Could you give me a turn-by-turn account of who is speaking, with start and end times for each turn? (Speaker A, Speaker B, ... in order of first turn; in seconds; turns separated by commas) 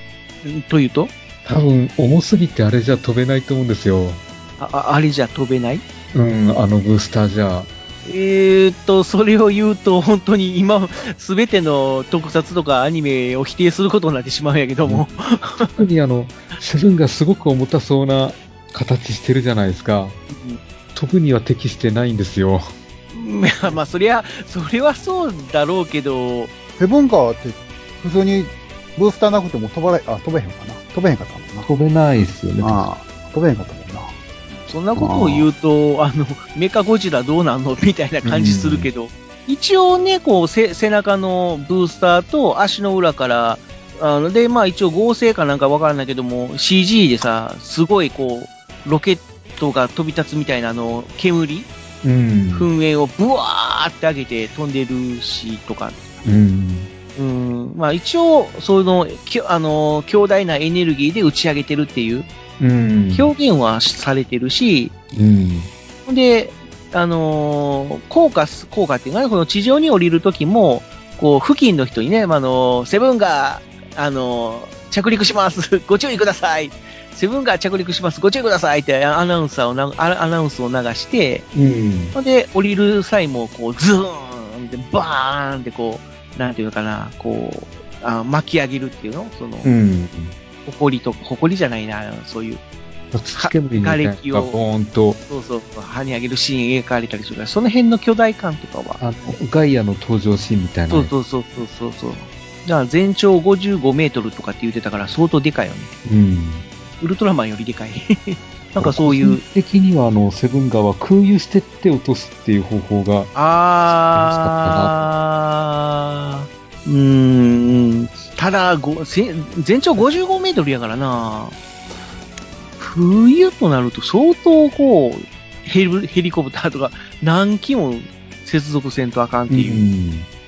Speaker A: 0.4-1.1, Speaker B: 1.4-4.2, Speaker A: 4.6-5.8, Speaker B: 6.1-7.7, Speaker A: 8.0-15.8, Speaker B: 15.7-20.2, Speaker A: 20.3-20.6, Speaker B: 20.9-22.7, Speaker A: 23.1-26.5, Speaker C: 26.8-31.7, Speaker B: 31.6-32.9, Speaker C: 32.6-34.1, Speaker A: 34.7-51.7, Speaker C: 35.0-35.5, Speaker B: 38.2-38.9, Speaker B: 52.0-52.7, Speaker A: 52.5-56.0, Speaker B: 56.2-56.9, Speaker A: 57.1-62.3, Speaker B: 62.6-63.3, Speaker A: 63.1-64.9, Speaker B: 65.1-65.7, Speaker A: 66.0-81.5, Speaker B: 81.5-82.2, Speaker A: 82.1-89.7, Speaker B: 89.6-90.3, Speaker A: 90.7-92.6, Speaker B: 93.1-95.2, Speaker A: 93.4-94.6, Speaker A: 95.3-99.3, Speaker B: 99.0-101.1, Speaker A: 100.9-105.9, Speaker B: 106.0-106.7, Speaker A: 107.0-109.4, Speaker B: 108.8-113.3, Speaker A: 113.3-121.5, Speaker B: 113.9-115.1, Speaker A: 122.8-129.8, Speaker B: 129.5-130.3